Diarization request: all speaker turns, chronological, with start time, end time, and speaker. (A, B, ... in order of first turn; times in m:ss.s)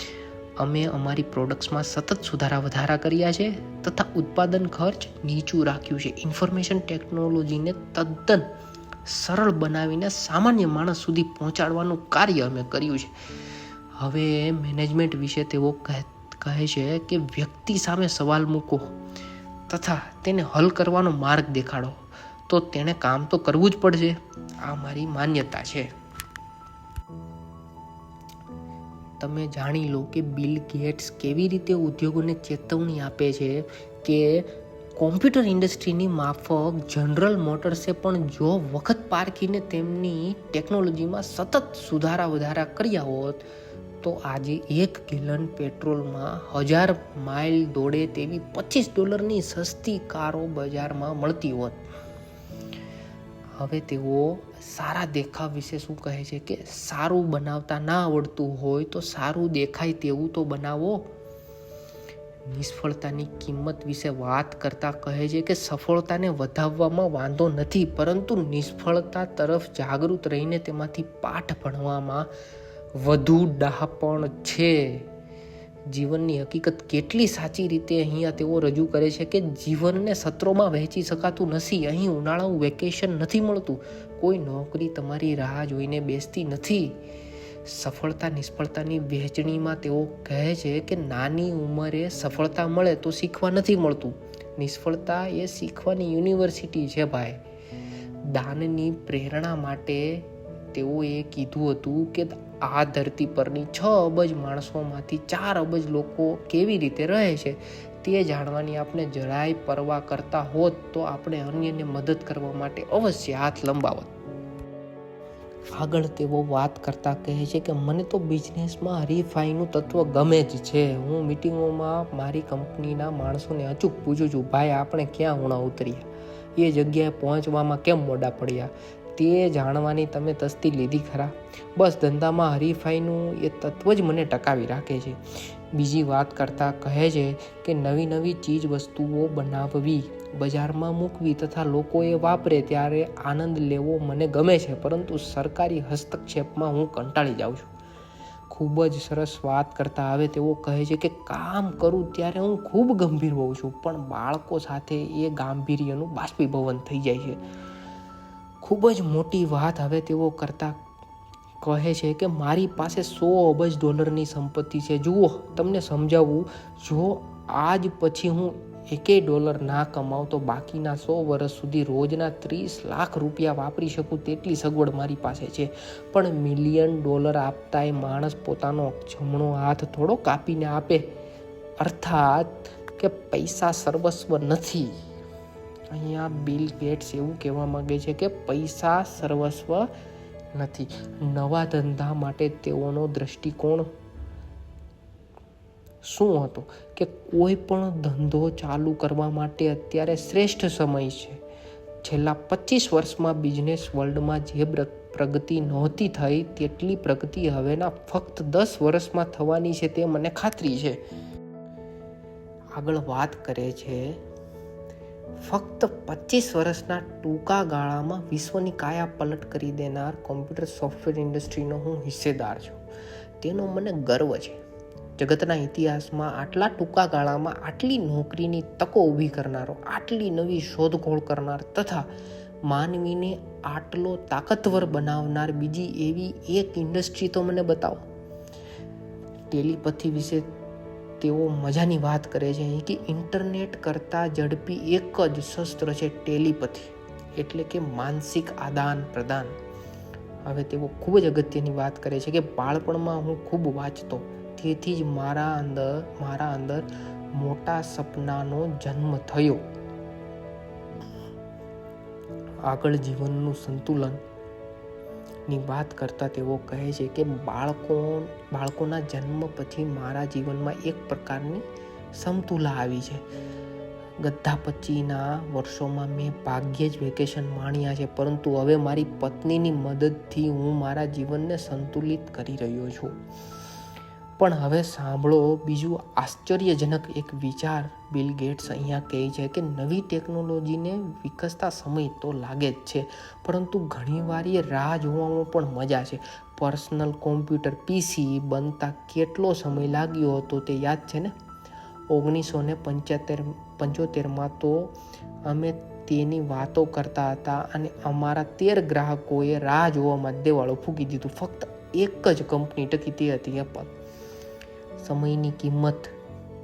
0:00.6-0:08.5 A
0:09.0-0:19.0 A
0:19.7-0:25.9 A
0:29.2-0:43.4 A
0:44.0-0:51.8 A
0:53.6-1:01.1 A
1:02.4-1:12.3 A
1:12.9-1:15.1 A
1:15.9-1:27.0 A
1:27.6-1:37.4 A
1:38.2-1:54.1 A
1:55.7-2:27.7 A
2:28.5-2:37.4 A
2:38.6-2:40.8 A
2:41.6-3:01.1 A
3:01.8-3:05.0 A
3:05.9-3:09.9 A
3:10.5-3:13.9 A
3:16.0-3:21.4 A
3:22.0-3:31.0 A
3:32.7-3:34.2 A
3:35.4-3:42.8 A
3:43.4-3:44.6 A
3:45.2-3:52.1 A
3:52.6-3:58.1 A
3:59.5-4:00.5 A
4:01.2-4:09.6 A
4:10.4-4:19.6 A
4:22.6-4:24.2 A
4:25.5-4:33.2 A
4:34.2-4:43.2 A
4:44.4-5:01.3 A
5:02.1-5:13.9 A
5:15.0-5:16.1 A